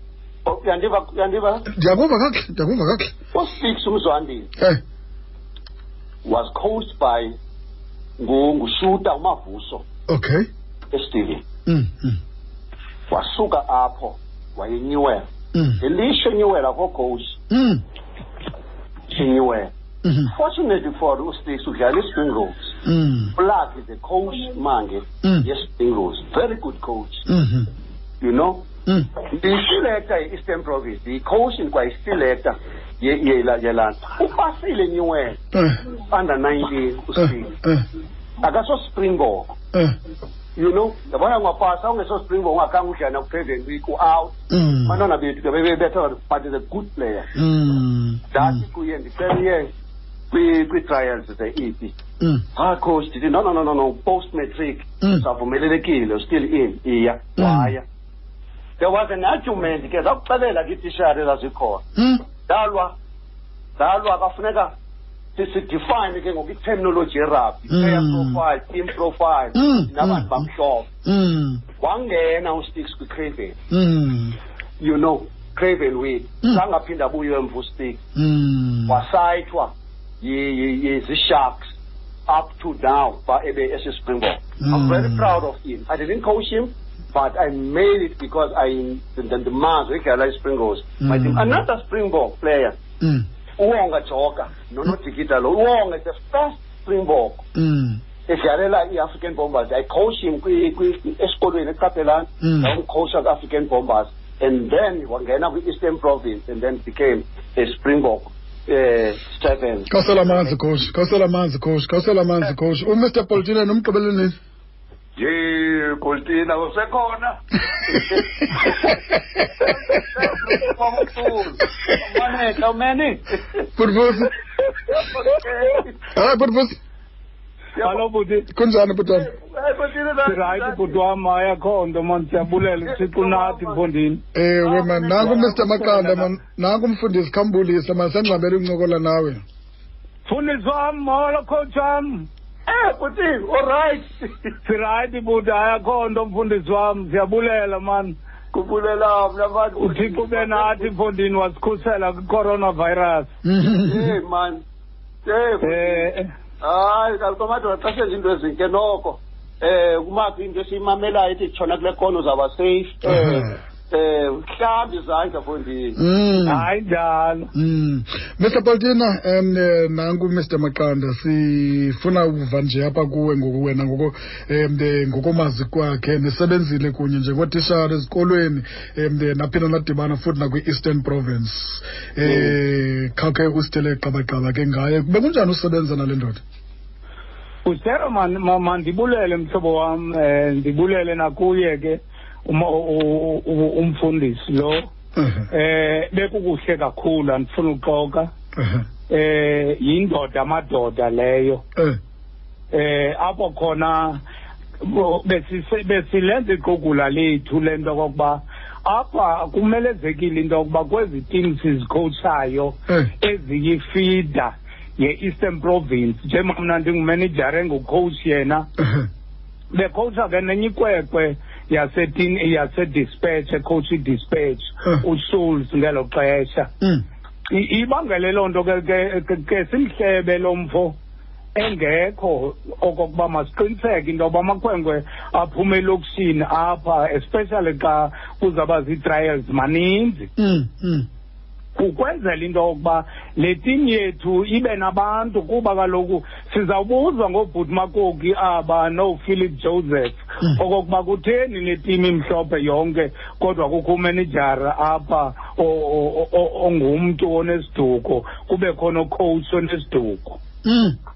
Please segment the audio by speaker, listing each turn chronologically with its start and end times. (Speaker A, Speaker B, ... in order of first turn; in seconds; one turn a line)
Speaker A: 0.4-1.7
Speaker B: 1.7-3.1
Speaker A: 3.3-4.5
Speaker A: 6.2-7.3
Speaker A: 8.2-9.8
Speaker B: 10.1-10.5
Speaker A: 10.9-11.4
Speaker B: 11.7-12.2
Speaker A: 13.1-15.2
Speaker B: 15.5-15.8
Speaker A: 15.8-17.4
Speaker B: 17.5-17.8
Speaker A: 19.1-19.7
Speaker B: 20.0-20.3
Speaker A: 20.2-22.7
Speaker B: 22.8-23.3
Speaker A: 23.3-27.2
Speaker B: 25.2-25.5
Speaker B: 27.3-27.7
Speaker A: 28.2-28.7
Speaker A: 29.2-35.4
Speaker B: 35.5-35.8
Speaker A: 35.9-37.5
Speaker B: 37.2-37.8
Speaker A: 38.4-39.5
Speaker A: 40.5-47.3
Speaker B: 44.5-45.0
Speaker B: 47.3-48.6
Speaker A: 48.3-49.7
Speaker A: 50.3-52.0
Speaker A: 52.5-57.8
Speaker B: 57.4-57.7
Speaker A: 58.8-61.8
Speaker B: 62.0-62.2
Speaker A: 62.5-63.0
Speaker A: 63.8-64.7
Speaker A: 65.3-70.9
Speaker B: 67.7-68.4
Speaker B: 69.5-70.4
Speaker B: 71.0-71.6
Speaker A: 71.8-73.6
Speaker B: 73.7-74.4
Speaker A: 74.8-78.0
Speaker B: 78.1-79.0
Speaker A: 78.9-81.7
Speaker A: 82.3-92.8
Speaker B: 84.6-85.3
Speaker B: 91.0-91.6
Speaker B: 93.0-93.2
Speaker A: 93.6-97.4
Speaker B: 97.5-98.0
Speaker A: 98.3-110.4
Speaker B: 102.4-102.7
Speaker B: 109.9-114.4
Speaker A: 115.2-119.0
Speaker B: 117.9-118.8
Speaker A: 119.5-123.7
Speaker B: 123.8-124.3
Speaker A: 124.9-126.0
Speaker B: 126.1-126.8
Speaker A: 127.8-128.1
Speaker C: 127.8-128.5
Speaker B: 128.5-129.3
Speaker A: 129.1-131.0
Speaker C: 130.2-134.2
Speaker A: 132.8-133.8
Speaker B: 134.3-139.4
Speaker A: 134.6-136.3
Speaker C: 140.2-142.3
Speaker A: 142.7-144.5
Speaker C: 144.6-148.2
Speaker A: 148.5-150.9
Speaker C: 149.8-153.3
Speaker B: 153.4-154.1
Speaker A: 153.8-154.6
Speaker A: 155.2-156.1
Speaker C: 155.6-156.3
Speaker A: 156.6-166.0
Speaker B: 163.0-163.6
Speaker B: 166.0-166.7
Speaker C: 166.4-167.5
Speaker B: 167.5-186.4
Speaker C: 187.6-194.9
Speaker B: 195.2-195.5
Speaker C: 195.5-198.3
Speaker B: 198.6-198.8
Speaker C: 199.1-201.6
Speaker C: 202.7-204.2
Speaker C: 204.8-218.7
Speaker B: 218.8-219.1
Speaker C: 219.7-226.7
Speaker C: 227.5-230.9
Speaker C: 231.5-240.3
Speaker B: 240.4-241.1
Speaker C: 241.7-260.4
Speaker B: 260.6-260.9